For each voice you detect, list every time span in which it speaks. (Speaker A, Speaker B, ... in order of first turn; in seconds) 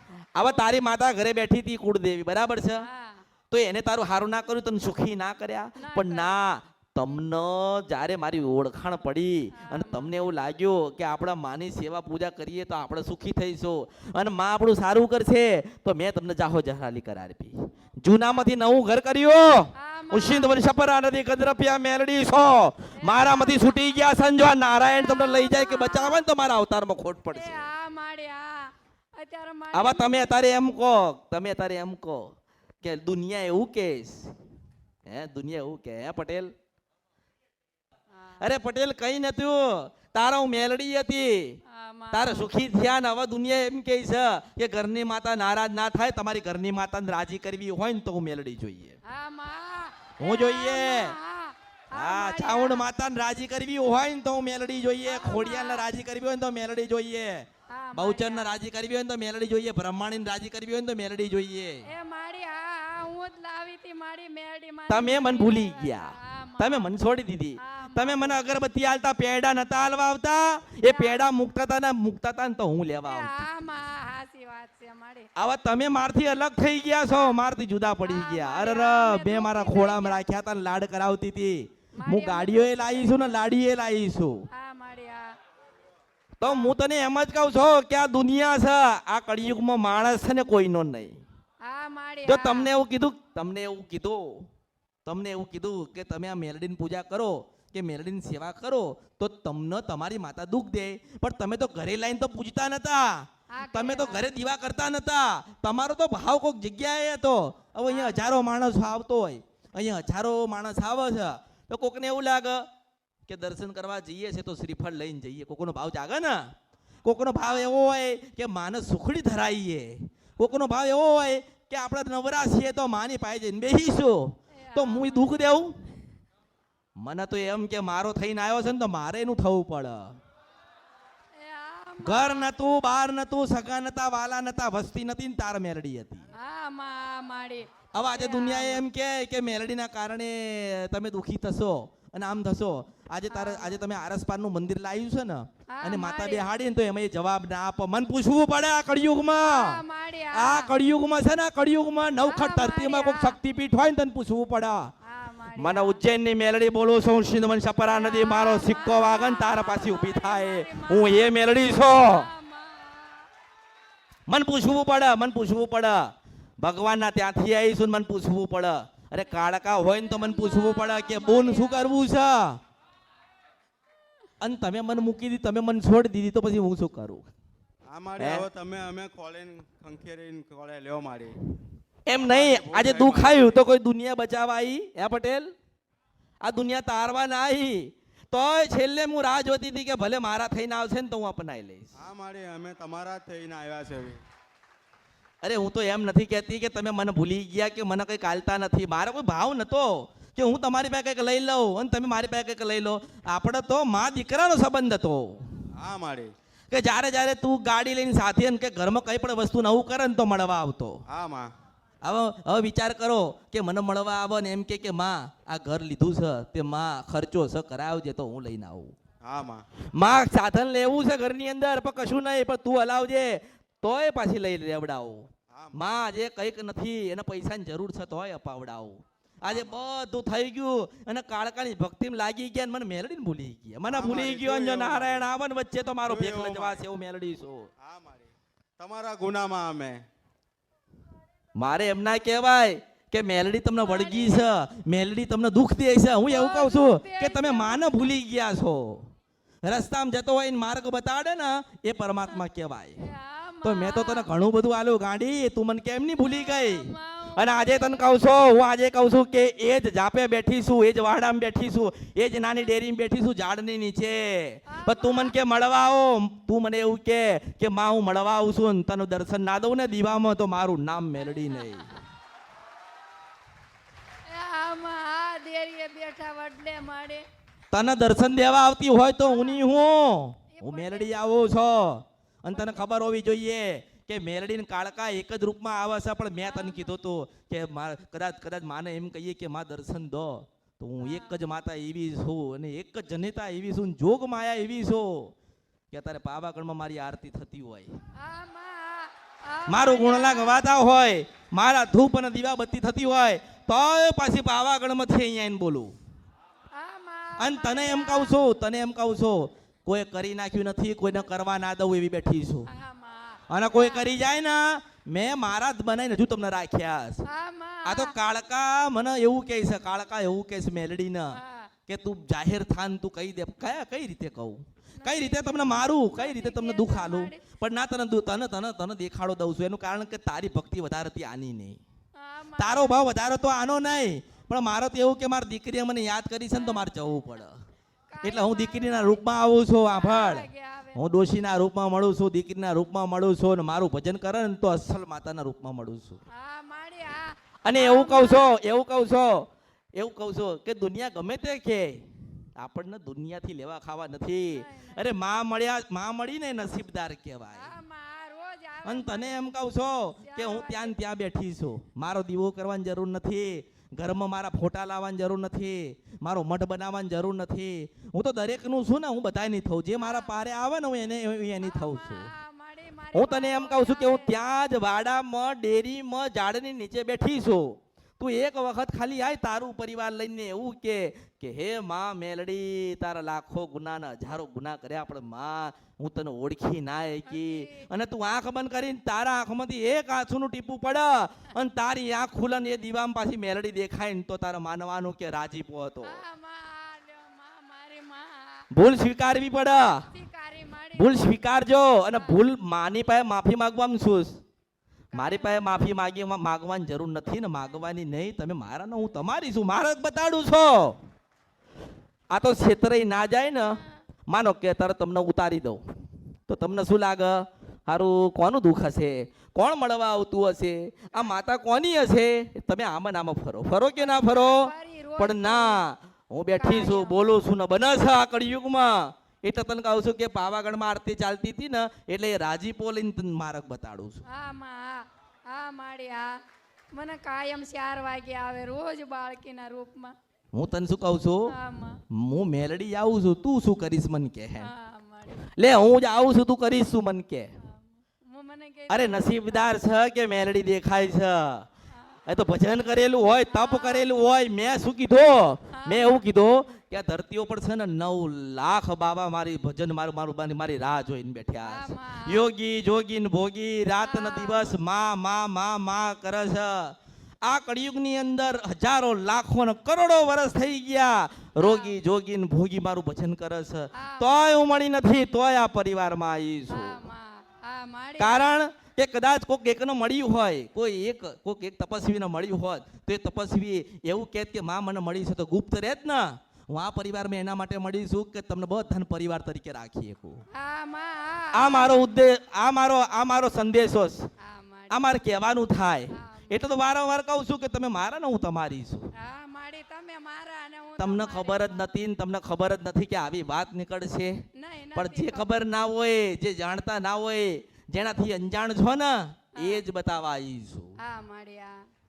Speaker A: 0.3-2.9, 3.5-27.7, 29.7-32.3, 32.8-34.3, 35.0-36.5, 38.4-41.6, 42.1-49.0, 50.2-51.2, 52.0-61.9, 64.9-73.5, 75.4-84.5, 86.4-91.2, 92.2-94.5, 95.0-112.7, 113.3-116.5, 117.0-125.8, 127.0-130.1, 132.0-136.3, 137.9-149.8, 150.3-154.9, 155.6-162.3, 164.3-172.6, 174.4-177.2, 178.2-178.4, 182.1-185.5, 186.4-191.9, 195.4-205.4, 206.7-211.0, 212.0-218.9, 219.9-237.7, 241.6-249.1, 249.6-253.1, 253.6-271.9, 277.7-295.3, 295.9-297.9, 299.7-305.9, 307.4-312.7, 313.5-317.2, 317.9-331.8, 332.6-337.6, 338.3-346.2, 347.6-352.0, 352.6-357.8, 358.9-372.3, 373.1-396.2, 398.7-400.1, 400.9-404.4, 405.2-411.0, 412.3-415.8, 416.5-434.2, 440.5-441.5, 442.1-444.7, 445.4-447.5, 448.9-451.7, 452.3-477.1, 478.2-490.4, 491.5-494.3, 494.9-499.1, 501.0-511.0
Speaker B: 0.4-0.7, 2.9-3.2, 5.8-6.3, 9.5-10.1, 19.8-20.6, 23.0-23.9, 24.9-26.2, 27.3-30.3, 41.7-42.5, 49.1-52.9, 55.0-55.9, 57.7-58.5, 61.9-66.9, 67.6-68.4, 70.8-71.2, 73.1-75.3, 77.1-77.4, 78.0-80.2, 82.0-83.4, 84.5-85.3, 86.5-86.7, 91.6-92.7, 103.6-104.3, 107.9-108.3, 117.4-117.7, 124.7-125.4, 131.4-132.5, 136.4-138.8, 143.3-143.8, 145.8-146.5, 149.4-150.7, 152.2-153.4, 155.1-156.0, 157.9-161.4, 161.9-163.3, 169.9-171.9, 243.8-244.4, 246.3-248.1, 253.0-254.3, 256.2-258.2, 264.7-265.4, 271.5-271.9, 274.3-277.2, 279.2-279.7, 280.5-281.4, 282.5-282.9, 286.4-286.9, 291.0-291.4, 298.2-300.6, 306.7-308.4, 312.7-314.1, 317.3-318.1, 321.4-321.7, 325.0-327.6, 332.2-333.0, 336.6-336.8, 338.1-339.2, 339.9-341.0, 346.3-348.5, 354.5-355.1, 357.5-359.4, 360.2-361.0, 370.0-370.3, 371.6-374.3, 387.3-387.9, 396.0-398.7, 399.8-401.4, 402.1-402.4, 405.1-406.0, 424.0-425.8, 426.6-427.2, 434.3-436.3, 436.9-440.1, 441.5-442.0, 444.6-445.4, 447.7-449.7, 453.5-454.1, 455.7-456.2, 461.6-462.4, 464.0-464.7, 471.6-472.0, 473.9-474.5, 476.7-478.6, 490.6-492.1, 494.4-495.0, 496.1-496.8, 499.2-501.9, 504.6-505.5, 511.0-511.8
Speaker C: 177.9-181.3, 182.2-183.6, 192.0-194.2, 205.8-206.3, 211.1-211.5, 219.2-219.6, 225.5-225.9, 233.9-235.3, 236.1-236.9, 237.8-240.0